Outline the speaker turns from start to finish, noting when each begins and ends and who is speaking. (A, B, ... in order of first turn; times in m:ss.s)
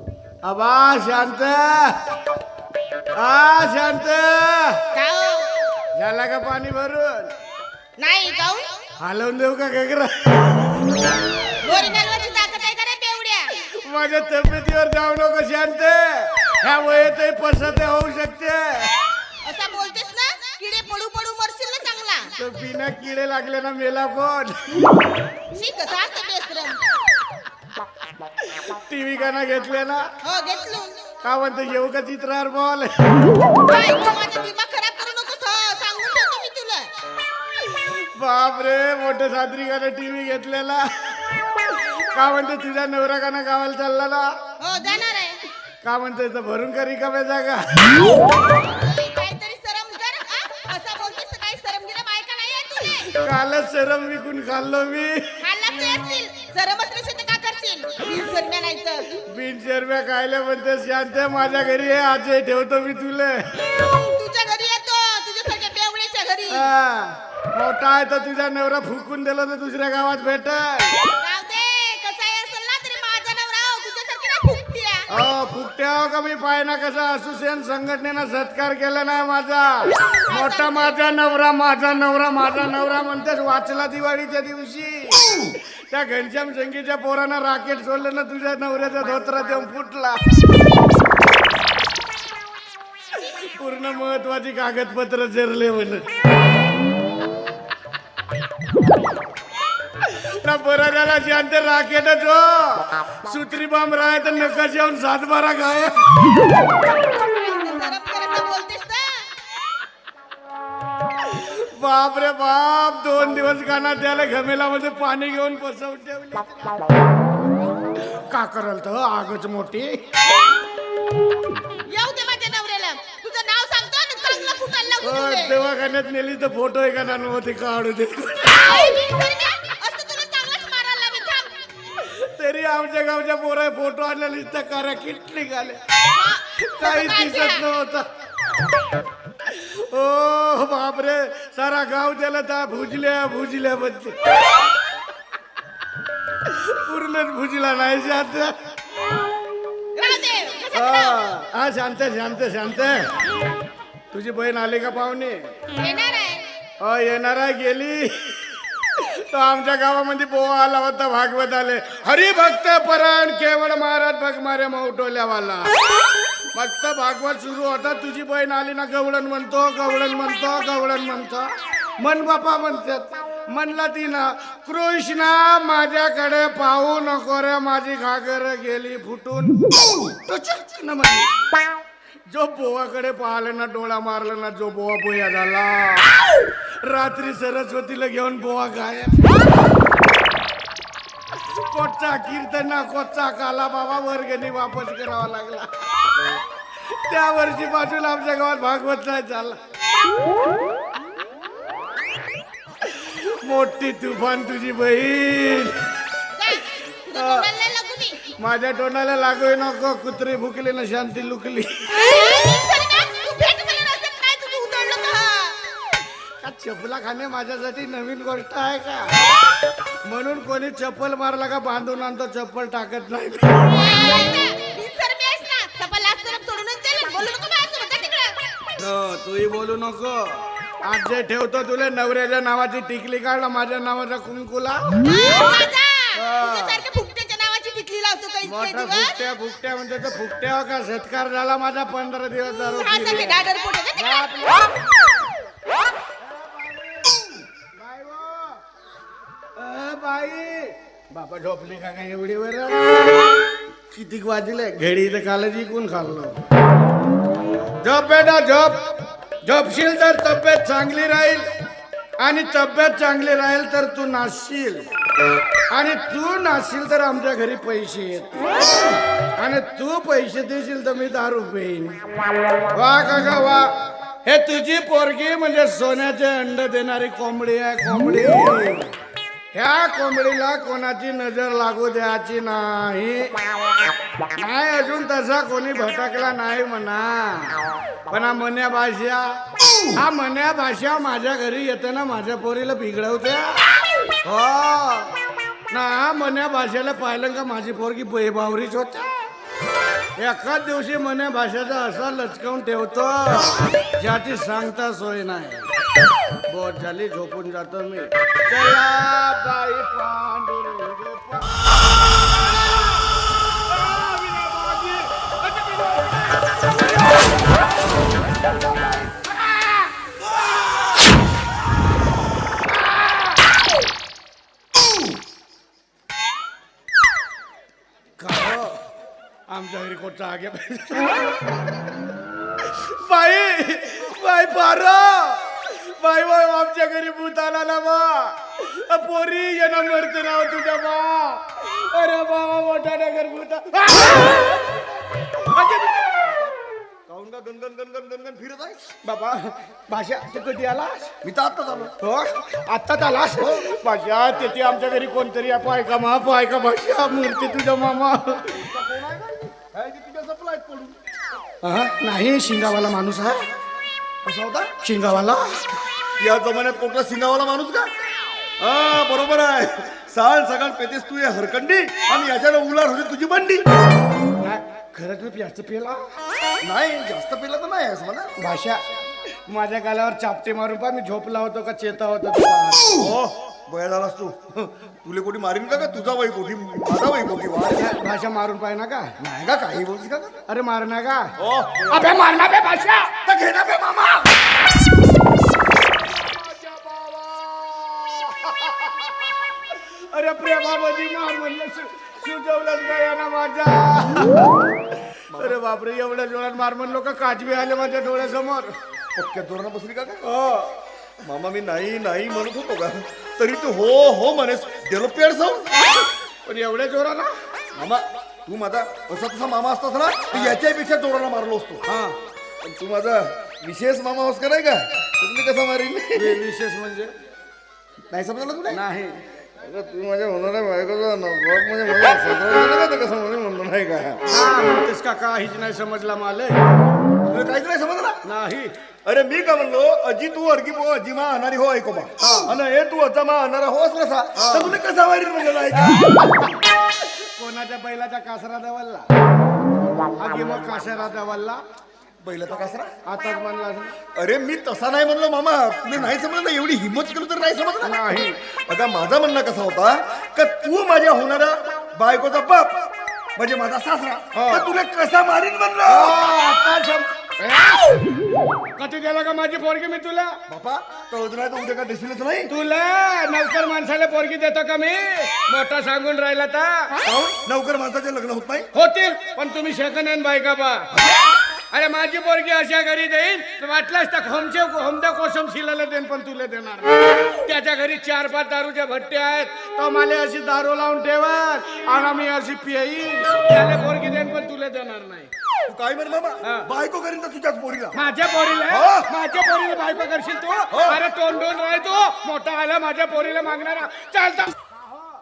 0:00.4-0:02.0 A
0:03.2-0:04.8 A
0:05.0-0:05.6 B
0:05.9-0:07.3 A
0:08.0-0:08.8 B
0:09.0-0:10.6 A
0:11.6-0:13.5 B
0:13.6-0:18.9 A
0:19.4-0:22.3 B
0:22.4-0:24.8 A
0:25.5-0:26.8 B
0:28.6-0:30.1 A
0:30.2-0:31.0 B
0:31.2-0:33.2 A
0:33.6-0:36.9 B
0:37.8-0:40.9 A
0:41.7-0:44.4 A
0:44.6-0:45.4 B
0:45.8-0:48.1 A
0:48.4-0:53.1 B
0:53.1-0:55.3 A
0:55.4-0:59.1 B
0:59.2-1:03.6 A
1:03.8-1:06.7 B
1:06.5-1:11.0 A
1:11.2-1:15.1 B
1:15.1-1:30.2 A
1:20.3-1:20.9 B
1:33.2-1:36.1 A
1:40.2-1:46.3 A
1:47.0-1:49.2 B
1:51.2-1:56.6 A
1:58.1-2:00.0 A
2:01.9-2:05.6 B
2:05.0-2:08.8 A
2:08.6-2:11.6 B
2:12.0-2:15.8 A
2:16.1-2:17.6 B
2:16.6-2:18.1 A
2:19.5-2:24.2 A
2:26.5-2:28.6 A
2:30.0-2:31.2 B
2:30.7-2:33.1 A
2:34.1-2:35.5 A
2:35.8-2:36.5 B
2:36.8-2:38.4 A
2:39.0-2:45.7 A
2:46.5-3:01.3 A
3:02.3-3:06.2 A
3:06.8-3:09.4 A
3:11.6-3:15.7 A
3:16.9-3:19.6 A
3:23.0-3:25.9 A
3:26.3-3:28.2 B
3:27.1-3:27.5 A
3:28.3-3:32.0 A
3:32.0-3:35.6 B
3:36.4-3:39.2 A
3:40.0-3:43.9 A
3:43.7-3:48.6 B
3:48.8-3:55.0 A
3:55.0-3:59.2 B
3:56.1-3:56.8 A
3:58.4-4:04.8 A
4:02.8-4:04.3 B
4:06.2-4:08.6 A
4:09.6-4:13.1 A
4:13.9-4:16.4 A
4:17.8-4:18.9 A
4:19.4-4:21.5 A
4:22.2-4:24.9 A
4:25.7-4:28.5 A
4:29.4-4:32.0 A
4:32.7-4:33.7 A
4:34.2-4:38.9 A
4:39.5-4:43.3 A
4:44.3-4:49.4 A
4:50.0-4:53.7 A
4:54.2-4:55.1 A
4:55.7-4:59.1 A
5:00.2-5:05.7 A
5:06.5-5:11.6 A
5:13.6-5:16.5 A
5:22.8-5:23.2 A
5:28.2-5:28.9 A
5:29.5-5:31.3 A
5:32.6-5:44.7 A
5:45.3-5:46.1 A
5:47.1-5:48.9 C
5:49.0-5:51.1 A
5:51.2-5:51.9 C
5:52.0-5:58.7 A
5:53.4-5:53.8 C
5:58.5-6:01.0 C
6:01.6-6:03.5 A
6:04.2-6:04.7 C
6:04.8-6:05.7 A
6:06.2-6:07.9 C
6:08.6-6:13.7 C
6:14.4-6:16.0 A
6:16.6-6:18.3 C
6:18.4-6:18.8 A
6:19.5-6:23.0 A
6:23.0-6:28.0 C
6:27.7-6:29.2 A
6:29.2-6:30.4 C
6:30.5-6:31.3 A
6:31.4-6:32.2 C
6:31.9-6:34.3 A
6:36.1-6:39.1 A
6:39.7-6:44.6 A
6:45.3-6:45.6 C
6:45.3-6:48.8 A
6:49.2-6:50.3 C
6:50.2-6:50.7 A
6:51.2-6:55.8 C
6:56.4-6:57.4 A
6:57.8-7:01.8 C
7:00.3-7:00.6 A
7:01.9-7:02.2 A
7:02.6-7:06.4 C
7:06.1-7:07.1 A
7:08.1-7:08.8 C
7:08.7-7:09.2 A
7:09.6-7:14.2 C
7:14.3-7:16.6 A
7:17.3-7:18.2 C
7:18.2-7:18.7 A
7:19.0-7:26.1 C
7:22.2-7:22.5 A
7:24.4-7:24.8 A
7:25.7-7:29.1 A
7:30.2-7:31.6 A
7:32.2-7:33.0 C
7:33.0-7:34.0 A
7:34.1-7:46.2 C
7:37.8-7:38.4 A
7:44.3-7:44.7 A
7:45.9-7:48.0 A
7:48.8-7:50.4 A
7:50.5-7:52.5 C
7:52.5-7:57.2 A
7:57.3-7:58.7 C
7:58.7-8:00.9 A
8:01.7-8:15.3 A
8:15.7-8:18.0 C
8:16.4-8:16.7 A
8:17.9-8:25.0 A
8:18.7-8:19.1 C
8:20.7-8:21.0 C